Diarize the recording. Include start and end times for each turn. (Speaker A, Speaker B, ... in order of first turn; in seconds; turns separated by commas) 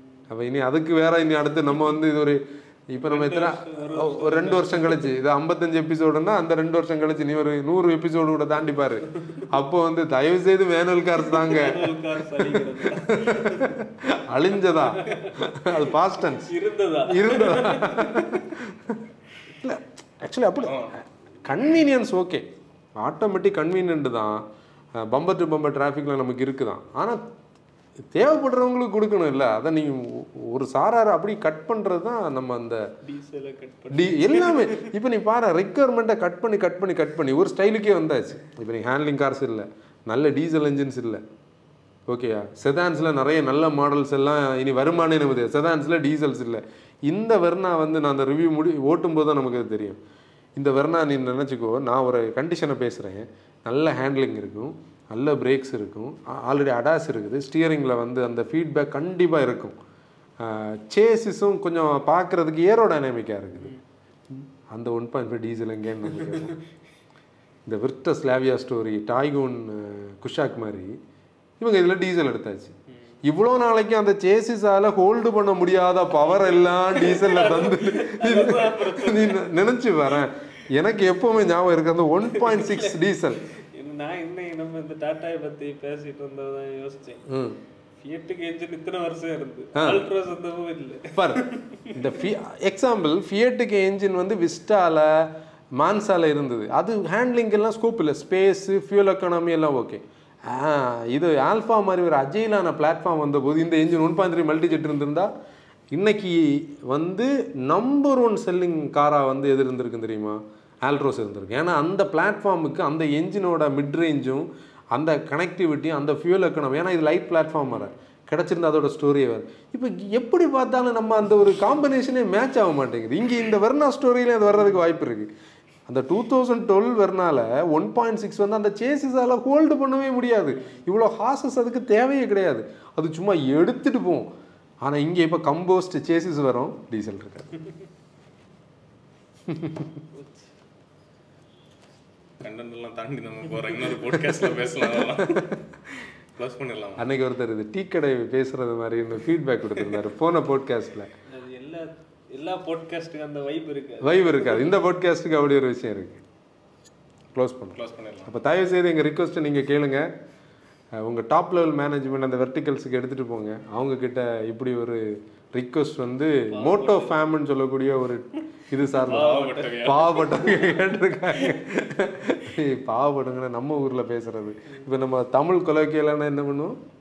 Speaker A: 0.3-22.5, Speaker B: 3.0-5.1, Speaker B: 11.3-13.8, Speaker B: 14.7-18.6, Speaker C: 20.6-21.0, Speaker A: 23.0-24.4, Speaker A: 25.0-27.2, Speaker A: 28.1-32.9, Speaker B: 33.0-34.9, Speaker A: 33.9-41.2, Speaker A: 42.1-50.0, Speaker A: 50.6-59.8, Speaker A: 60.4-63.7, Speaker A: 64.3-66.6, Speaker B: 66.2-66.5, Speaker A: 67.7-71.0, Speaker A: 71.6-83.4, Speaker B: 76.9-79.5, Speaker B: 82.3-83.0, Speaker B: 83.6-87.2, Speaker A: 87.3-87.6, Speaker B: 88.0-92.2, Speaker A: 89.8-90.0, Speaker A: 91.1-105.3, Speaker A: 105.9-125.3, Speaker A: 125.9-134.3, Speaker B: 130.6-130.8, Speaker A: 134.8-137.5, Speaker A: 139.5-139.9, Speaker C: 142.4-147.1, Speaker A: 144.9-145.5, Speaker A: 147.0-151.1, Speaker B: 151.3-154.7, Speaker A: 154.0-156.2, Speaker A: 157.3-160.1, Speaker C: 157.7-158.3, Speaker A: 161.0-176.8, Speaker B: 166.5-167.2, Speaker B: 168.9-171.6, Speaker C: 169.1-170.4